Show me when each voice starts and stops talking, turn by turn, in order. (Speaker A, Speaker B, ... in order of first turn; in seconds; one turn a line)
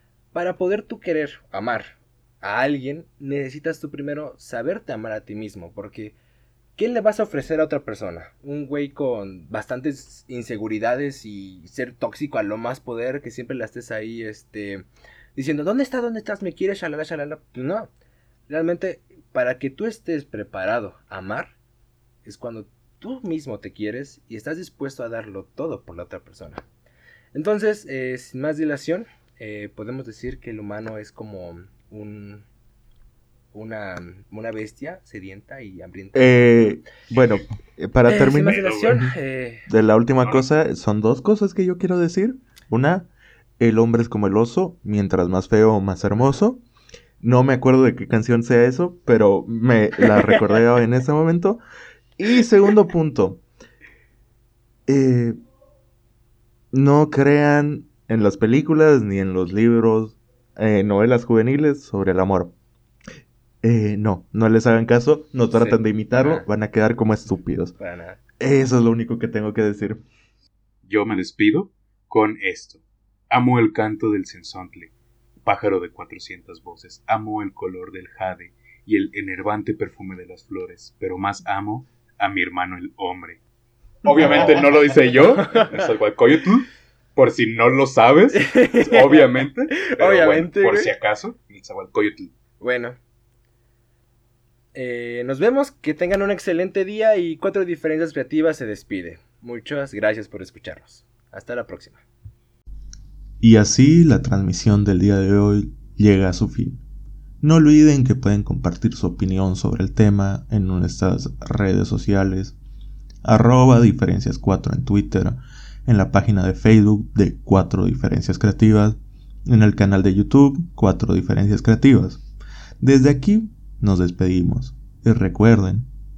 Speaker A: 0.3-6.1
Speaker A: 6.8-17.9
Speaker A: 18.5-21.5
Speaker A: 22.2-26.6
Speaker A: 27.3-32.5
Speaker A: 33.5-36.8
Speaker B: 36.1-39.0
Speaker A: 38.0-39.7
Speaker C: 38.4-39.1
Speaker B: 39.7-46.6
Speaker B: 47.2-51.6
Speaker B: 52.2-53.4
Speaker B: 54.9-55.4
Speaker B: 56.7-62.5
Speaker B: 63.6-67.7
Speaker A: 65.5-66.5
Speaker A: 67.8-68.2
Speaker B: 68.4-70.0
Speaker C: 70.9-74.9
Speaker C: 75.4-83.4
Speaker C: 84.0-92.3
Speaker B: 84.2-84.5
Speaker A: 84.2-84.6
Speaker A: 85.3-85.8
Speaker A: 88.3-90.9
Speaker A: 92.6-93.0
Speaker A: 94.7-102.0
Speaker B: 103.4-106.8
Speaker B: 107.4-112.5
Speaker B: 113.2-122.2
Speaker B: 122.8-125.9